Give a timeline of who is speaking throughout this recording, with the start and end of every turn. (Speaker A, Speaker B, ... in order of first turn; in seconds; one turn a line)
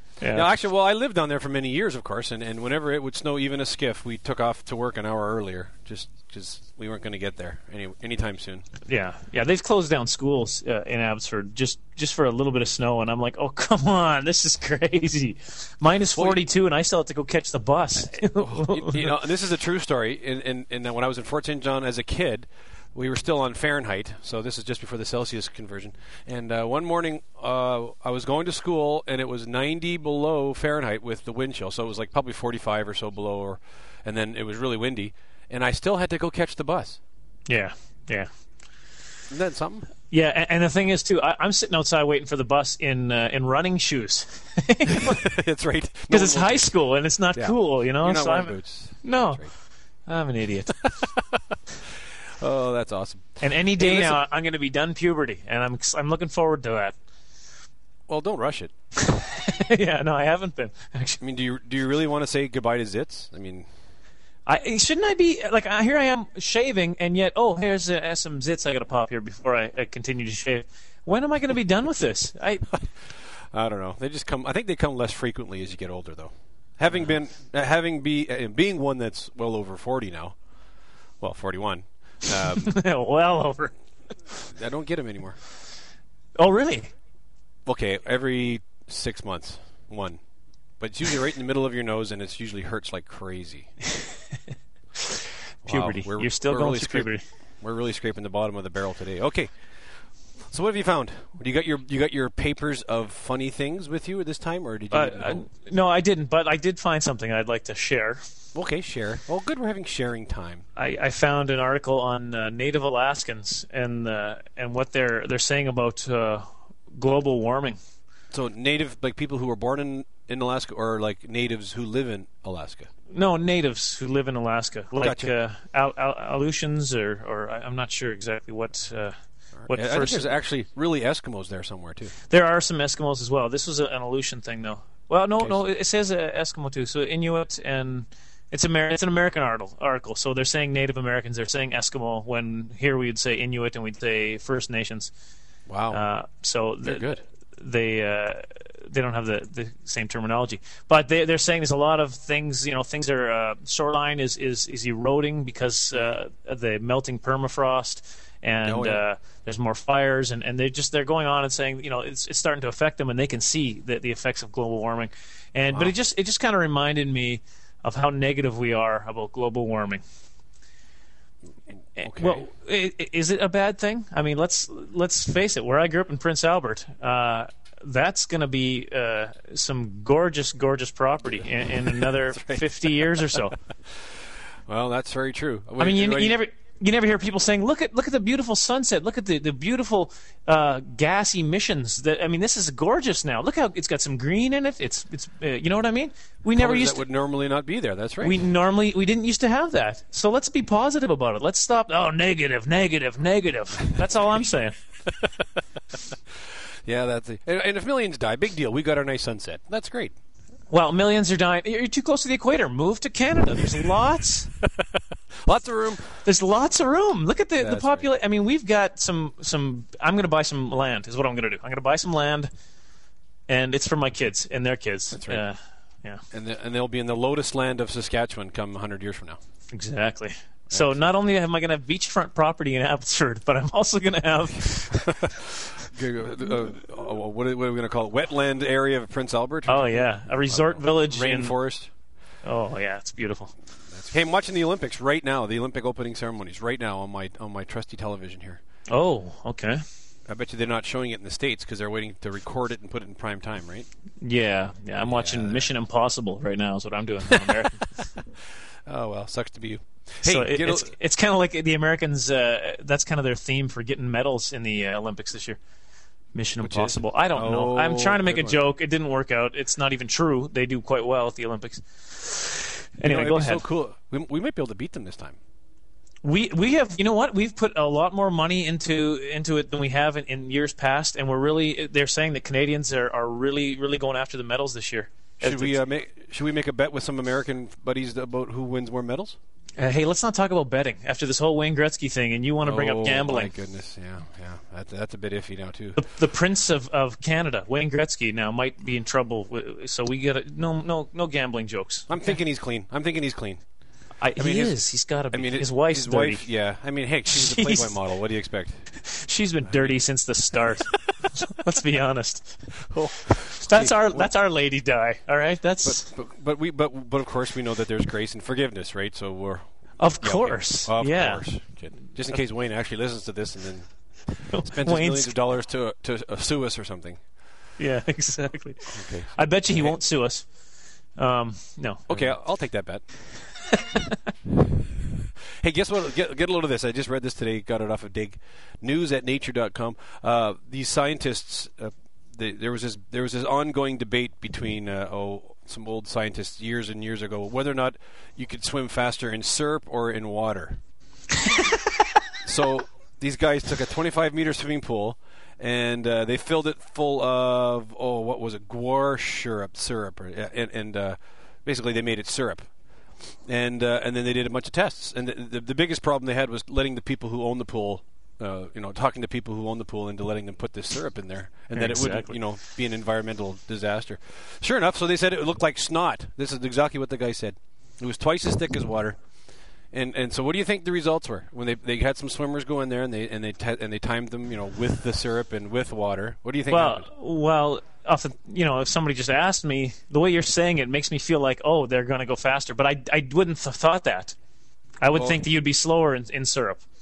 Speaker A: 0.2-0.5
Speaker B: 0.3-8.7
Speaker A: 8.9-19.1
Speaker B: 16.1-16.4
Speaker B: 18.4-37.0
Speaker A: 37.5-38.3
Speaker B: 39.3-39.9
Speaker A: 40.1-45.2
Speaker B: 44.9-46.7
Speaker A: 46.1-49.5
Speaker B: 47.4-49.5
Speaker A: 50.1-50.9
Speaker B: 51.0-51.4
Speaker B: 52.4-54.2
Speaker A: 53.4-57.0
Speaker B: 58.1-58.7
Speaker A: 59.0-61.2
Speaker B: 61.2-63.7
Speaker A: 64.5-72.7
Speaker B: 73.5-80.4
Speaker B: 81.2-82.8
Speaker A: 82.5-83.7
Speaker B: 84.5-85.4
Speaker A: 86.4-86.9
Speaker B: 87.7-90.2
Speaker B: 90.8-93.7
Speaker A: 95.7-97.2
Speaker B: 95.7-99.5
Speaker B: 100.5-105.4
Speaker A: 104.9-108.2
Speaker B: 108.5-110.7
Speaker A: 110.8-117.8
Speaker B: 118.3-122.9
Speaker A: 123.1-129.1
Speaker B: 125.0-125.3
Speaker B: 129.6-132.1
Speaker A: 129.7-130.3
Speaker A: 132.3-145.1
Speaker B: 145.7-146.0
Speaker A: 145.9-170.0
Speaker B: 146.8-147.2
Speaker B: 158.6-159.0
Speaker A: 172.0-183.6
Speaker B: 172.0-172.4
Speaker B: 181.9-182.7
Speaker B: 184.7-186.4
Speaker A: 185.8-197.0
Speaker B: 196.6-198.4
Speaker A: 198.2-204.7
Speaker B: 206.9-210.1
Speaker A: 210.7-214.5
Speaker B: 215.4-216.1
Speaker A: 216.2-222.5
Speaker B: 217.6-218.1
Speaker A: 223.5-226.2
Speaker B: 225.1-225.4
Speaker B: 226.3-229.4
Speaker A: 229.7-235.2
Speaker B: 230.7-231.1
Speaker B: 235.9-241.9
Speaker A: 239.7-241.6
Speaker A: 242.4-243.5
Speaker B: 243.9-248.6
Speaker A: 248.9-249.8
Speaker B: 250.3-253.9
Speaker A: 254.2-258.0
Speaker B: 255.0-255.7
Speaker B: 258.9-260.9
Speaker A: 260.2-265.6
Speaker A: 266.3-273.6
Speaker B: 266.6-268.6
Speaker B: 273.0-275.4
Speaker A: 276.2-285.8
Speaker B: 285.4-289.4
Speaker A: 289.8-293.5
Speaker B: 292.6-296.0
Speaker A: 296.0-302.3
Speaker B: 302.1-303.6
Speaker A: 304.2-306.5
Speaker B: 304.4-304.8
Speaker B: 305.3-308.9
Speaker A: 307.3-308.0
Speaker A: 308.9-312.8
Speaker B: 309.7-310.0
Speaker B: 312.9-314.3
Speaker A: 313.6-316.1
Speaker B: 315.8-319.6
Speaker A: 320.0-321.5
Speaker B: 320.2-327.2
Speaker A: 324.5-325.4
Speaker A: 327.8-330.5
Speaker B: 328.9-329.9
Speaker A: 331.2-332.3
Speaker B: 332.1-333.0
Speaker A: 333.7-334.2
Speaker B: 335.6-350.8
Speaker B: 352.4-362.7
Speaker B: 363.5-379.2
Speaker A: 371.7-372.4
Speaker B: 379.9-387.1
Speaker A: 386.7-394.4
Speaker A: 395.0-396.8
Speaker B: 395.1-395.4